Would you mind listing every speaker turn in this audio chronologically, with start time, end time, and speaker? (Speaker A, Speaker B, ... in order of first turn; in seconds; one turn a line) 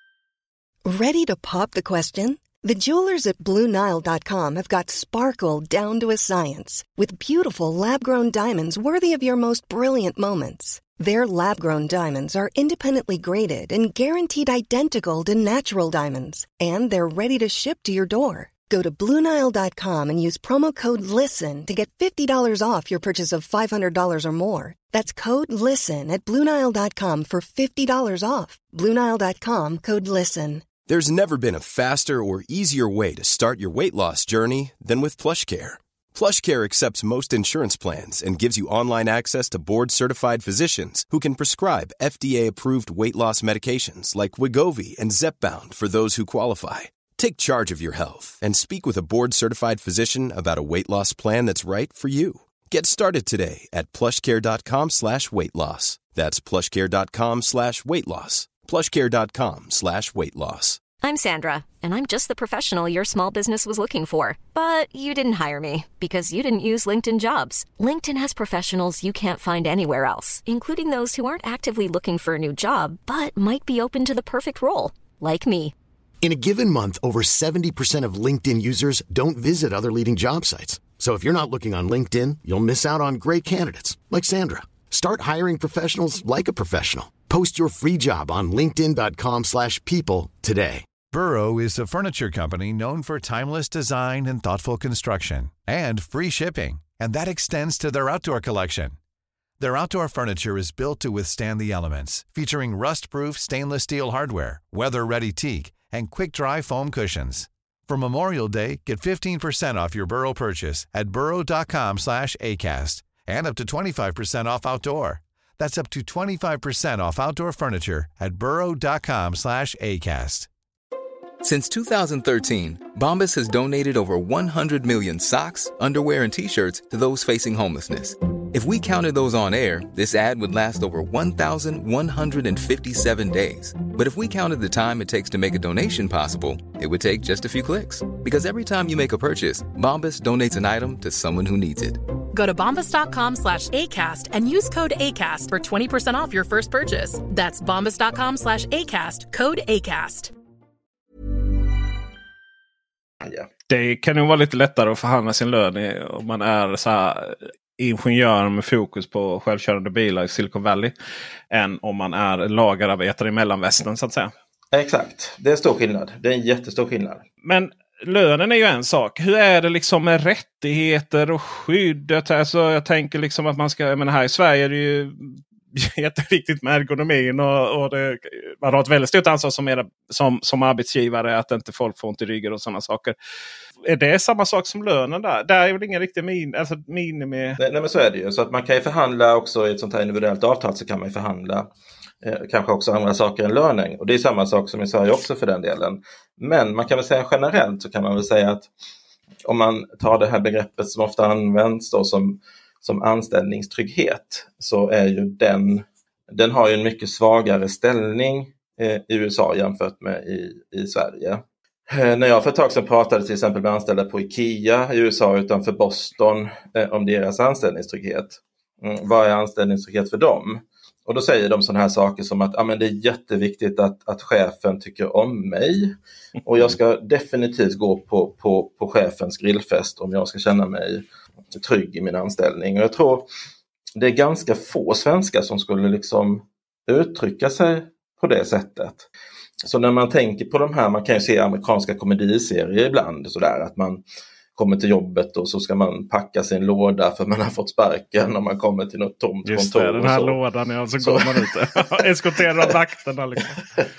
Speaker A: 0.8-30.6
Speaker B: 30.9-60.8
Speaker C: 61.0-75.7
Speaker D: 76.2-90.8
Speaker E: 91.1-99.0
Speaker E: 99.6-120.5
Speaker F: 121.4-142.0
Speaker G: 142.3-150.3
Speaker H: 153.7-160.9
Speaker H: 161.5-164.3
Speaker I: 164.7-167.2
Speaker H: 167.4-183.1
Speaker H: 183.8-187.6
Speaker I: 187.6-191.7
Speaker I: 192.2-198.7
Speaker I: 199.4-225.9
Speaker I: 226.4-233.2
Speaker I: 233.9-239.1
Speaker I: 239.6-244.0
Speaker I: 244.6-250.4
Speaker H: 249.4-253.6
Speaker I: 251.0-252.0